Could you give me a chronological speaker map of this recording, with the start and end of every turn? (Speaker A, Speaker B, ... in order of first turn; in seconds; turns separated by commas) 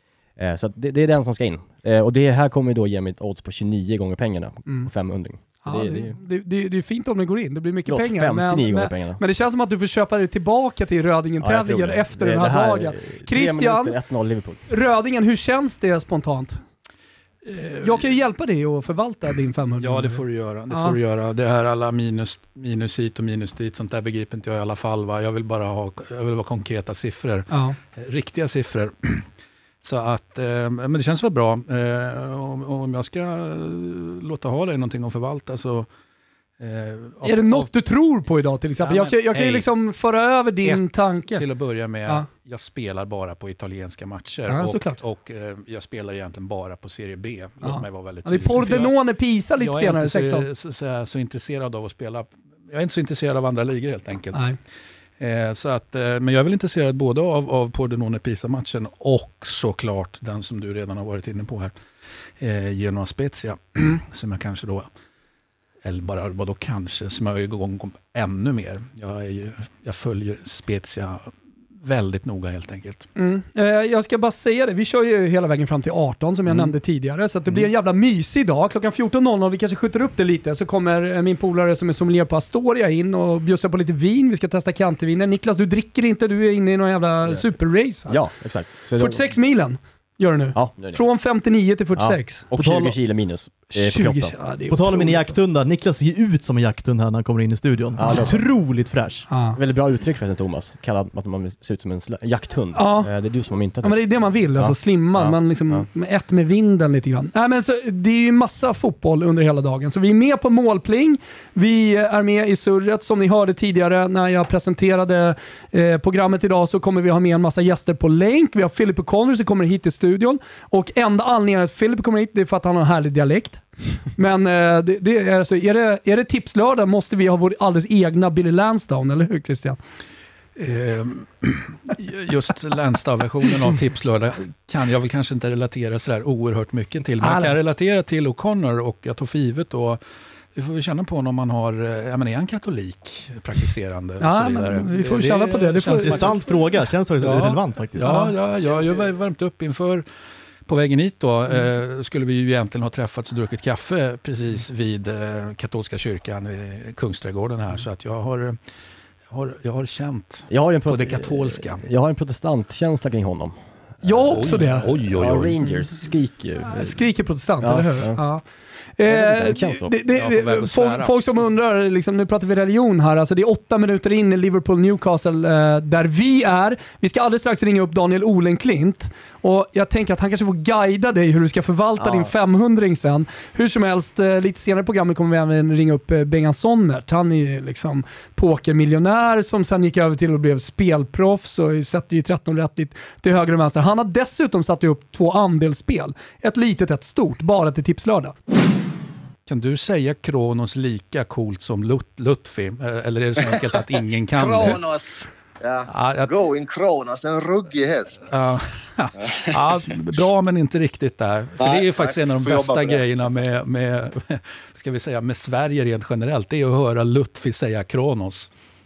Speaker A: 0.4-6.2, Speaker B: 5.6-13.9, Speaker A: 7.9-9.2, Speaker A: 11.4-14.6, Speaker B: 14.7-16.6, Speaker C: 17.4-18.0, Speaker B: 17.8-21.0, Speaker C: 19.8-29.2, Speaker B: 27.5-27.8, Speaker C: 29.8-35.9, Speaker C: 36.6-37.7, Speaker B: 37.2-41.4, Speaker C: 38.8-39.7, Speaker C: 40.6-48.9, Speaker B: 44.5-45.0, Speaker B: 47.6-50.5, Speaker C: 49.6-54.4, Speaker C: 55.2-61.7, Speaker C: 62.4-64.9, Speaker C: 65.8-71.3, Speaker C: 71.8-73.1, Speaker B: 73.2-88.2, Speaker A: 76.5-76.7, Speaker A: 88.1-89.2, Speaker B: 89.0-92.5, Speaker A: 90.5-91.0, Speaker A: 91.9-94.3, Speaker D: 92.5-93.0, Speaker B: 93.7-95.4, Speaker D: 94.7-99.2, Speaker A: 98.0-98.4, Speaker B: 98.0-98.3, Speaker B: 99.3-99.6, Speaker A: 99.5-105.9, Speaker B: 102.8-103.1, Speaker B: 103.8-123.6, Speaker B: 124.1-129.8, Speaker C: 130.6-140.0, Speaker B: 137.2-137.6, Speaker C: 140.6-146.6, Speaker B: 144.2-146.4, Speaker D: 146.0-148.1, Speaker C: 147.2-150.1, Speaker B: 148.0-148.3, Speaker C: 150.7-158.6, Speaker C: 159.3-161.8, Speaker A: 160.5-163.6, Speaker B: 164.0-164.9, Speaker A: 164.1-167.1, Speaker C: 164.3-165.6, Speaker B: 166.7-168.4, Speaker A: 167.6-168.2, Speaker B: 169.0-198.3, Speaker A: 169.0-169.9, Speaker C: 170.2-171.2, Speaker A: 182.0-182.3, Speaker C: 199.5-204.8, Speaker E: 204.3-208.2, Speaker C: 205.9-206.3, Speaker C: 208.3-218.5, Speaker E: 209.2-209.5, Speaker E: 211.6-213.0